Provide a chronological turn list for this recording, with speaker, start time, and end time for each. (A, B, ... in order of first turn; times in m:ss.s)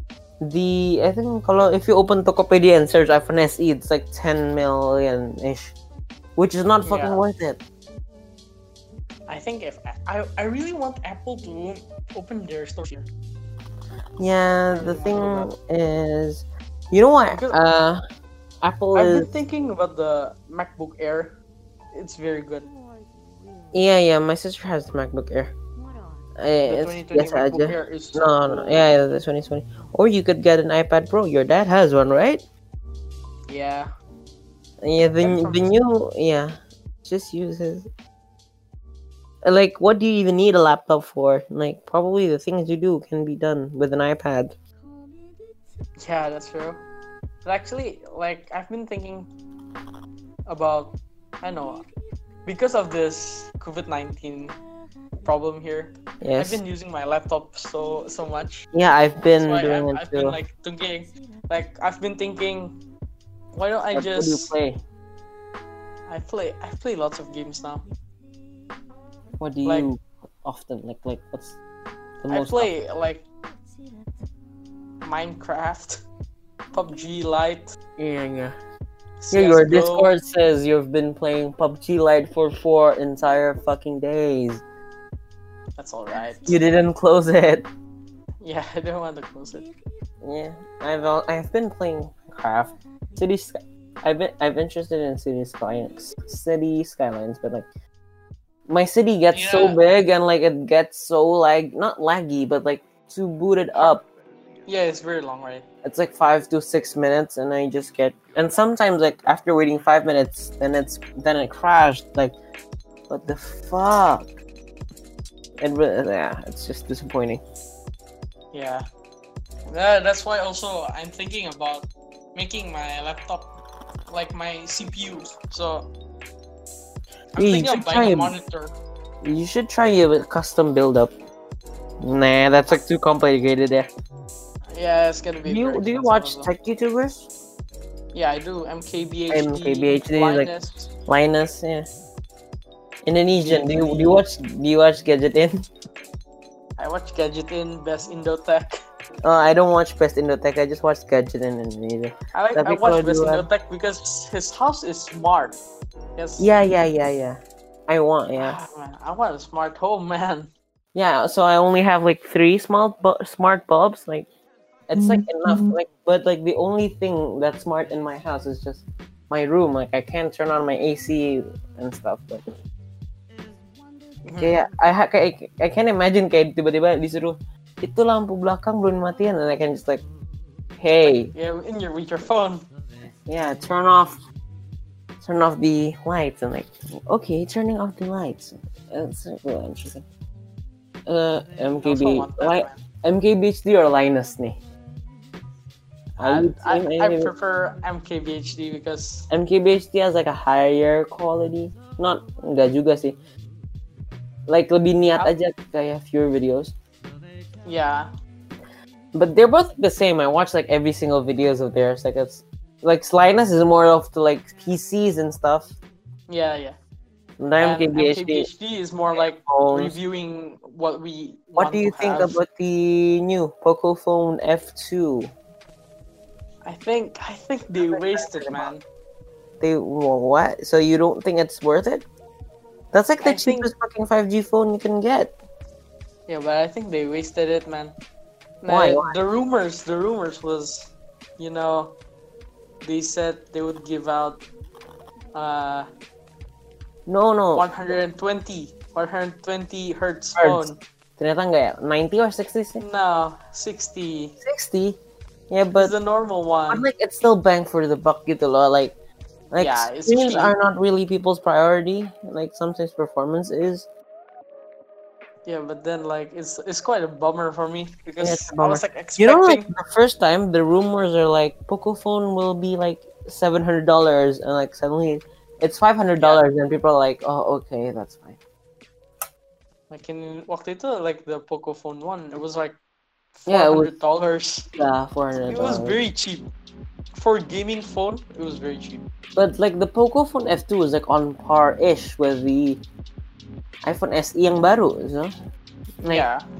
0:00.4-0:05.7 A
0:06.4-0:07.6 A
0:06.8-0:07.2 B
0:09.3-0:13.1 B
0:14.2-0:18.0 A
0:14.7-0:15.5 B
0:17.3-0:17.6 B
0:18.6-0:19.3 A
0:18.9-0:21.4 B
0:21.9-0:22.7 B
0:23.7-0:25.5 A
0:26.4-0:32.4 A
0:26.6-0:28.8 B
0:33.5-0:33.9 B
0:34.8-0:37.9 A
0:35.2-0:35.7 B
0:39.4-0:44.6 A
0:46.0-0:46.8 B
0:47.4-0:49.3 B
0:50.5-0:51.8 B
0:52.4-0:54.6 B
0:55.2-0:58.7 B
0:56.2-0:56.6 A
0:58.7-1:00.4 A
0:59.4-1:02.8 B
1:03.5-1:04.5 B
1:03.9-1:04.8 A
1:06.1-1:07.8 B
1:09.4-1:11.6 A
1:09.6-1:09.9 B
1:12.2-1:12.7 A
1:12.3-1:13.2 B
1:15.0-1:16.0 B
1:16.7-1:17.8 B
1:18.0-1:18.6 A
1:19.2-1:20.1 B
1:19.3-1:24.6 A
1:25.8-1:26.6 B
1:26.4-1:27.7 A
1:28.4-1:29.7 B
1:30.2-1:37.7 A
1:38.7-1:44.0 A
1:39.3-1:39.8 B
1:44.6-1:45.6 B
1:45.8-1:52.4 A
1:53.1-1:54.3 A
1:55.6-1:57.4 A
1:58.5-1:58.8 B
1:59.7-2:03.5 B
2:04.1-2:05.9 B
2:07.3-2:08.7 B
2:07.4-2:08.3 A
2:09.2-2:11.1 A
2:12.0-2:13.9 A
2:14.7-2:16.5 B
2:15.4-2:17.2 A
2:18.1-2:20.9 B
2:19.3-2:20.5 A
2:21.0-2:21.9 A
2:23.0-2:25.6 A
2:23.4-2:24.2 B
2:26.8-2:28.8 B
2:29.2-2:33.5 A
2:32.3-2:35.6 B
2:36.2-2:36.5 B
2:36.4-2:38.6 A
2:38.4-2:40.5 B
2:40.9-2:44.3 A
2:44.9-2:52.4 A
2:45.0-2:45.6 B
2:54.2-2:54.6 B
2:54.4-3:00.0 A
3:00.8-3:01.3 A
3:01.0-3:02.6 B
3:03.2-3:04.2 A
3:05.2-3:10.0 A
3:11.0-3:14.6 A
3:11.8-3:12.8 B
3:16.2-3:19.3 B
3:16.2-3:17.3 A
3:19.3-3:23.2 A
3:24.5-3:26.7 A
3:27.6-3:28.1 B
3:29.1-3:35.7 A
3:36.3-3:36.8 B
3:37.4-3:38.5 A
3:37.6-3:42.4 B
3:39.1-3:39.9 A
3:41.6-3:45.3 A
3:46.6-3:48.8 B
3:47.8-3:48.7 A
3:49.6-3:52.0 A
3:52.9-3:55.3 A
3:53.2-3:53.7 B
3:56.3-3:58.0 B
3:58.6-4:02.0 B
3:58.7-3:59.2 A
4:02.8-4:04.4 B
4:05.3-4:05.9 B
4:07.1-4:07.7 A
4:07.5-4:10.8 B
4:10.4-4:12.8 A
4:12.8-4:14.4 B
4:14.4-4:15.9 A
4:15.7-4:16.8 B
4:16.7-4:19.0 A
4:19.5-4:23.9 A
4:19.6-4:20.6 B
4:25.4-4:29.7 B
4:28.2-4:38.4 A
4:36.2-4:36.4 B
4:39.9-4:42.8 B
4:43.4-4:44.7 B
4:43.5-4:43.9 A
4:44.7-4:46.0 A
4:45.4-4:46.5 B
4:47.1-4:49.0 B
4:49.4-4:52.8 A
4:53.8-4:55.3 A
4:56.0-4:56.3 A
4:56.0-4:56.4 B